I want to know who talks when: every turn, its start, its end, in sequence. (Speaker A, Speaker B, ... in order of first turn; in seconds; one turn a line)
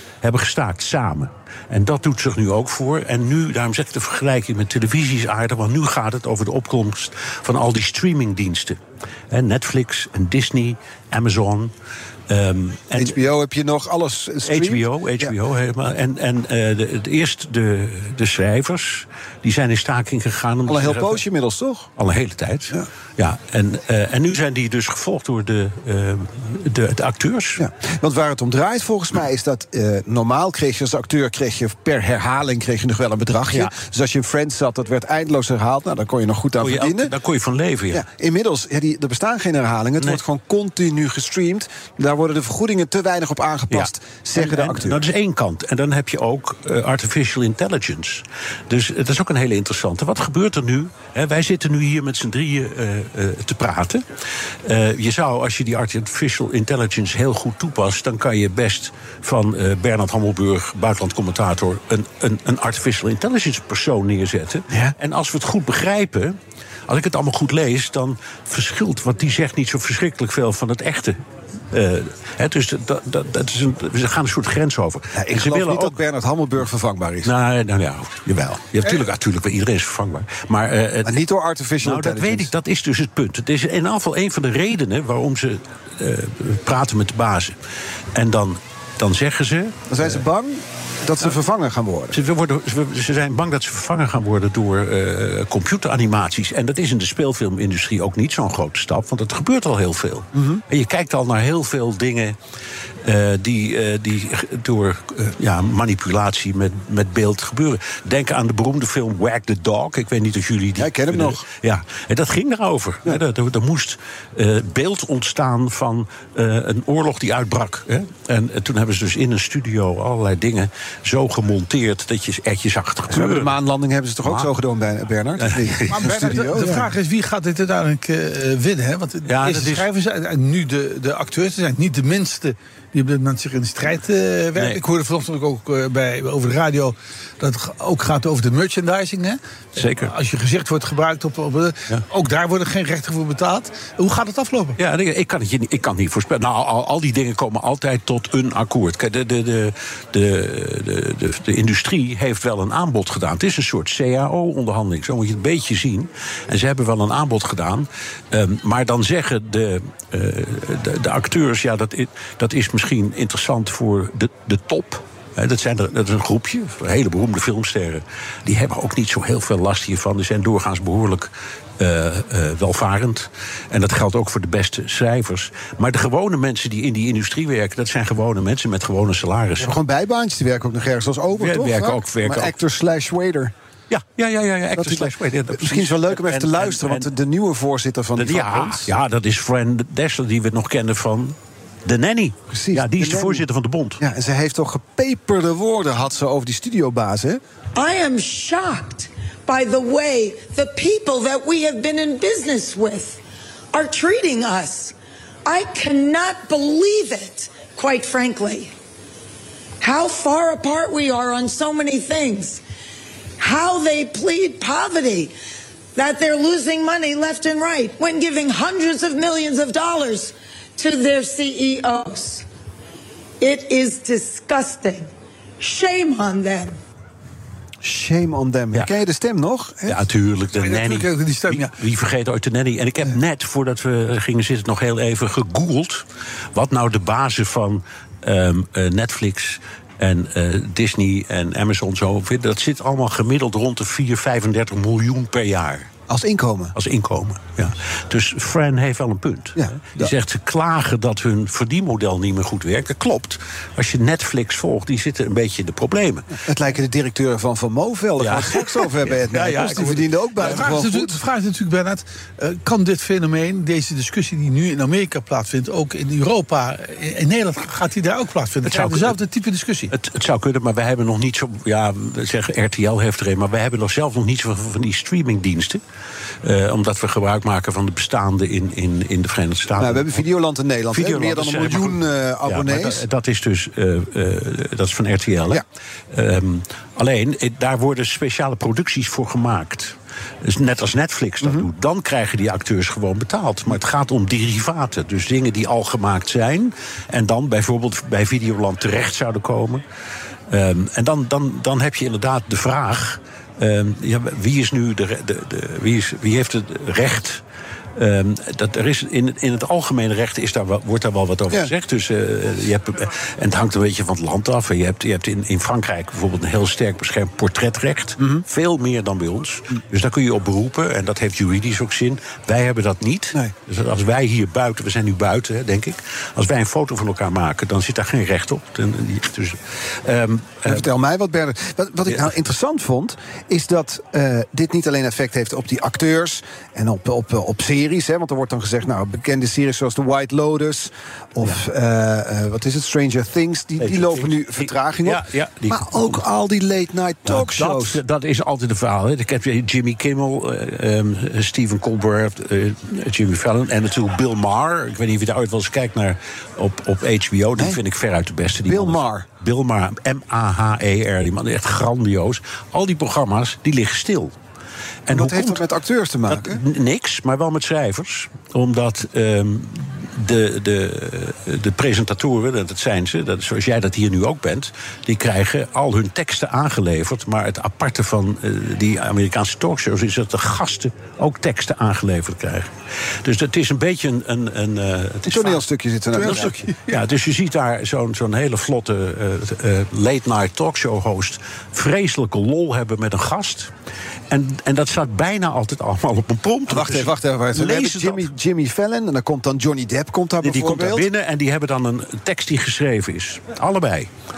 Speaker A: 0.2-8.8
Speaker A: 9.3-11.7
Speaker A: 12.3-13.2
Speaker B: 12.9-15.3
Speaker A: 14.5-21.2
Speaker B: 20.7-21.9
Speaker A: 22.0-27.6
Speaker B: 27.6-37.1
Speaker A: 36.6-38.0
Speaker B: 37.9-45.1
Speaker A: 43.7-54.0
Speaker A: 54.7-66.4
Speaker A: 66.9-71.2
Speaker A: 71.7-76.0
Speaker B: 75.2-77.3
Speaker A: 77.2-81.2
Speaker B: 81.0-82.5
Speaker A: 81.8-87.5
Speaker A: 88.2-90.2
Speaker B: 89.9-92.2
Speaker A: 92.1-102.4
Speaker B: 100.3-100.6
Speaker A: 103.0-123.5
Speaker B: 110.8-111.4
Speaker B: 123.1-126.9
Speaker A: 124.3-124.5
Speaker A: 125.4-126.4
Speaker C: 125.9-144.8
Speaker A: 129.2-129.9
Speaker A: 134.6-134.8
Speaker A: 139.8-140.1
Speaker A: 144.8-179.8
Speaker B: 179.6-183.5
Speaker A: 181.4-182.5
Speaker A: 183.9-187.1
Speaker B: 184.8-188.9
Speaker A: 188.2-194.0
Speaker B: 192.5-193.5
Speaker B: 194.0-197.4
Speaker D: 197.8-203.2
Speaker D: 203.7-204.9
Speaker D: 205.5-208.7
Speaker D: 209.8-212.6
Speaker D: 213.4-215.3
Speaker D: 216.0-222.4
Speaker D: 223.4-225.1
Speaker D: 225.6-226.8
Speaker B: 227.8-230.0
Speaker A: 229.9-245.9
Speaker C: 230.6-231.8
Speaker B: 246.1-246.8
Speaker A: 246.8-256.3
Speaker B: 249.6-250.2
Speaker B: 256.4-261.1
Speaker A: 258.2-258.9
Speaker C: 259.3-269.9
Speaker A: 268.6-269.2
Speaker A: 269.9-275.8
Speaker A: 276.4-280.2
Speaker B: 279.8-283.0
Speaker A: 280.9-299.8
Speaker B: 291.4-291.7
Speaker A: 300.5-307.4
Speaker A: 308.0-330.9
Speaker B: 330.6-348.0
Speaker A: 343.8-346.2
Speaker A: 347.2-364.4
Speaker B: 358.6-359.3
Speaker A: 365.1-365.7
Speaker B: 365.1-366.6
Speaker A: 366.3-382.7
Speaker A: 383.2-393.7
Speaker B: 385.3-386.7
Speaker A: 394.3-398.3
Speaker B: 396.7-401.1
Speaker A: 400.4-404.1